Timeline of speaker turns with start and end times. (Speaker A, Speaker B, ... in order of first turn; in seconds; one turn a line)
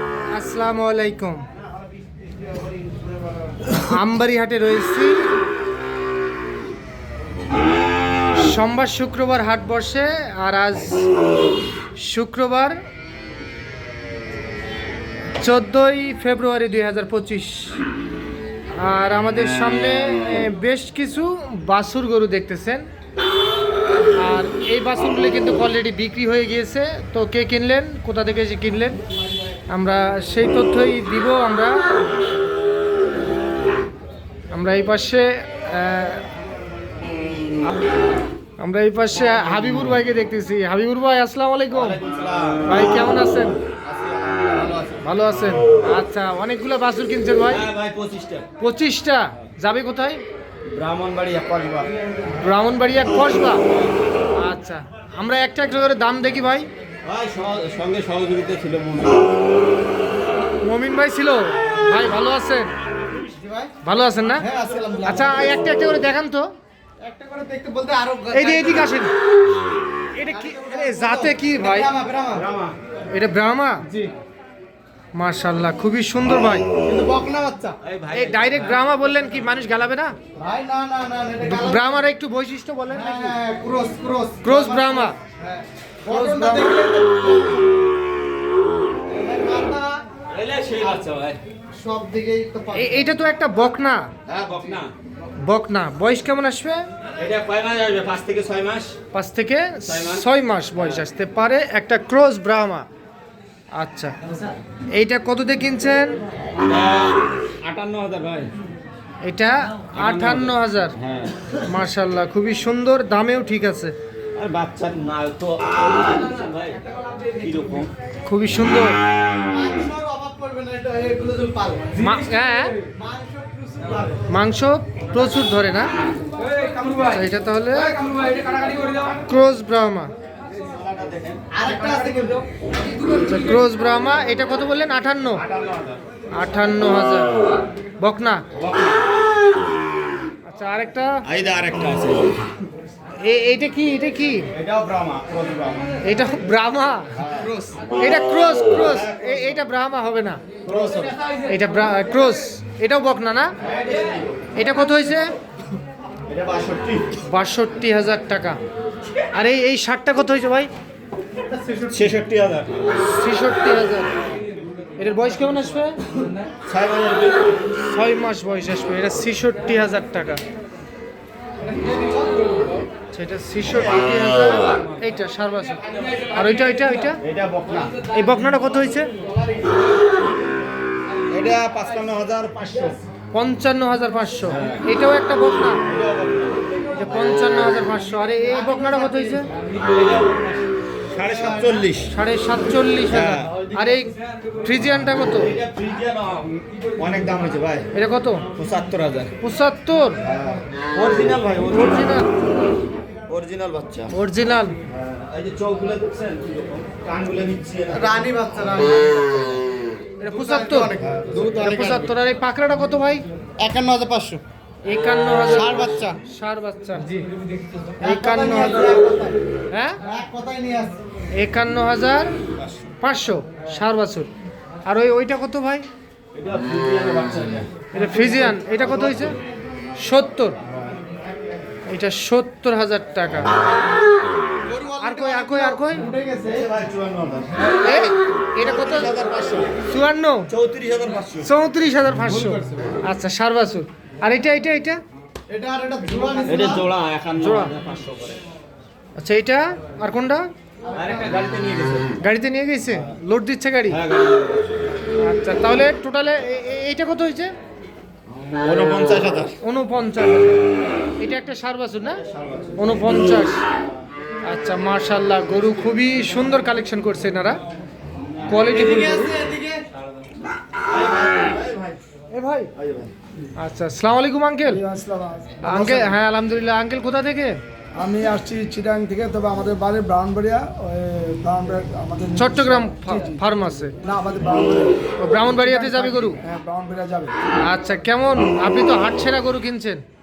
Speaker A: 0.3-1.4
Speaker A: 3.7-5.3
Speaker A: 8.3-11.0
Speaker A: 12.0-12.8
Speaker A: 15.4-17.8
Speaker A: 18.8-22.8
Speaker A: 24.2-29.0
Speaker A: 29.7-31.8
Speaker A: 34.5-36.2
Speaker A: 38.6-42.0
Speaker B: 41.7-42.7
Speaker A: 42.7-43.6
Speaker B: 43.8-45.0
Speaker A: 45.0-47.6
Speaker B: 47.5-48.5
Speaker A: 48.6-50.2
Speaker B: 50.7-51.9
Speaker A: 52.4-53.6
Speaker A: 54.4-56.7
Speaker B: 57.0-59.4
Speaker A: 60.6-62.7
Speaker C: 63.3-63.7
Speaker A: 63.8-64.5
Speaker C: 64.3-65.7
Speaker A: 65.0-66.5
Speaker C: 67.0-69.0
Speaker A: 68.3-69.1
Speaker A: 70.2-71.9
Speaker C: 70.3-72.5
Speaker B: 72.3-72.8
Speaker A: 73.1-73.8
Speaker C: 73.9-74.1
Speaker A: 75.2-76.7
Speaker C: 76.8-77.8
Speaker B: 77.8-78.8
Speaker A: 78.1-80.2
Speaker C: 80.4-82.0
Speaker A: 81.5-83.4
Speaker C: 82.9-87.7
Speaker A: 84.4-85.2
Speaker A: 86.1-86.8
Speaker C: 89.0-90.0
Speaker B: 90.3-91.4
Speaker C: 91.7-93.1
Speaker A: 92.7-94.1
Speaker B: 94.3-94.9
Speaker A: 95.4-96.9
Speaker B: 97.2-99.0
Speaker A: 99.1-102.9
Speaker B: 99.8-101.0
Speaker A: 103.8-104.1
Speaker A: 105.0-106.2
Speaker B: 106.6-108.5
Speaker A: 109.2-111.0
Speaker B: 109.9-111.5
Speaker A: 111.6-113.9
Speaker B: 114.4-117.9
Speaker A: 118.3-118.9
Speaker C: 119.5-124.3
Speaker A: 122.0-122.8
Speaker A: 124.3-125.9
Speaker C: 126.6-127.0
Speaker A: 127.0-127.9
Speaker C: 128.0-129.1
Speaker A: 129.1-130.1
Speaker B: 130.5-131.6
Speaker C: 131.5-132.4
Speaker A: 133.0-135.4
Speaker B: 135.4-136.0
Speaker A: 136.3-137.3
Speaker A: 138.0-138.4
Speaker B: 138.6-139.0
Speaker A: 140.4-141.2
Speaker B: 141.2-142.4
Speaker A: 143.2-144.5
Speaker B: 144.5-146.0
Speaker A: 146.0-147.1
Speaker B: 147.2-147.5
Speaker C: 147.3-147.8
Speaker A: 148.0-150.5
Speaker B: 148.8-149.6
Speaker B: 150.7-151.2
Speaker C: 150.7-151.1
Speaker A: 151.5-153.5
Speaker B: 153.6-154.5
Speaker A: 154.6-155.3
Speaker B: 156.3-157.1
Speaker A: 157.2-158.6
Speaker A: 159.3-160.7
Speaker C: 161.4-162.0
Speaker B: 161.9-163.0
Speaker A: 163.0-164.1
Speaker A: 165.0-166.0
Speaker B: 166.6-167.5
Speaker A: 167.8-170.4
Speaker C: 171.6-172.7
Speaker A: 173.1-177.2
Speaker B: 173.7-174.9
Speaker B: 177.2-178.0
Speaker A: 178.1-179.1
Speaker C: 179.2-179.7
Speaker B: 181.3-183.0
Speaker A: 183.3-185.8
Speaker B: 184.5-184.8
Speaker B: 185.8-186.7
Speaker A: 186.9-189.5
Speaker C: 188.7-189.5
Speaker B: 189.7-192.1
Speaker A: 192.1-195.5
Speaker B: 193.1-193.6
Speaker B: 195.3-197.9
Speaker A: 197.9-198.4
Speaker B: 198.6-199.3
Speaker A: 199.4-200.2
Speaker B: 200.2-202.2
Speaker A: 201.7-202.3
Speaker B: 203.3-204.1
Speaker A: 204.1-204.8
Speaker B: 204.9-208.3
Speaker C: 207.9-209.5
Speaker A: 210.2-213.2
Speaker C: 210.3-212.1
Speaker B: 211.1-211.4
Speaker C: 213.6-214.4
Speaker A: 214.9-217.1
Speaker C: 215.5-216.2
Speaker C: 217.0-217.3
Speaker C: 218.0-219.4
Speaker A: 218.0-218.9
Speaker A: 219.7-220.0
Speaker C: 220.0-221.0
Speaker A: 221.4-222.3
Speaker A: 223.0-224.3
Speaker A: 224.9-225.9
Speaker B: 226.3-227.9
Speaker A: 227.9-229.4
Speaker C: 228.0-228.8
Speaker A: 230.0-230.6
Speaker A: 231.9-233.5
Speaker C: 234.7-236.7
Speaker A: 235.0-236.1
Speaker B: 236.5-239.8
Speaker A: 237.8-239.2
Speaker A: 239.8-240.5
Speaker B: 240.5-241.5
Speaker A: 241.4-245.0
Speaker C: 242.2-243.0
Speaker C: 245.5-246.9
Speaker B: 246.4-248.4
Speaker A: 247.4-247.7
Speaker A: 249.2-250.5
Speaker C: 250.8-251.3
Speaker B: 250.9-252.2
Speaker A: 252.2-254.0
Speaker B: 253.9-254.8
Speaker A: 255.2-257.5
Speaker B: 258.4-259.5
Speaker A: 259.6-260.6
Speaker A: 261.2-262.2
Speaker B: 262.1-263.3
Speaker A: 262.8-263.6
Speaker A: 264.5-267.6
Speaker B: 268.3-268.7
Speaker A: 268.5-269.3
Speaker C: 268.6-269.8
Speaker B: 269.9-272.0
Speaker A: 272.3-272.7
Speaker B: 272.8-273.1
Speaker A: 273.6-274.8
Speaker D: 274.7-276.2
Speaker A: 275.6-277.6
Speaker D: 278.0-287.3
Speaker A: 282.4-283.9
Speaker A: 285.2-286.4
Speaker A: 287.6-290.0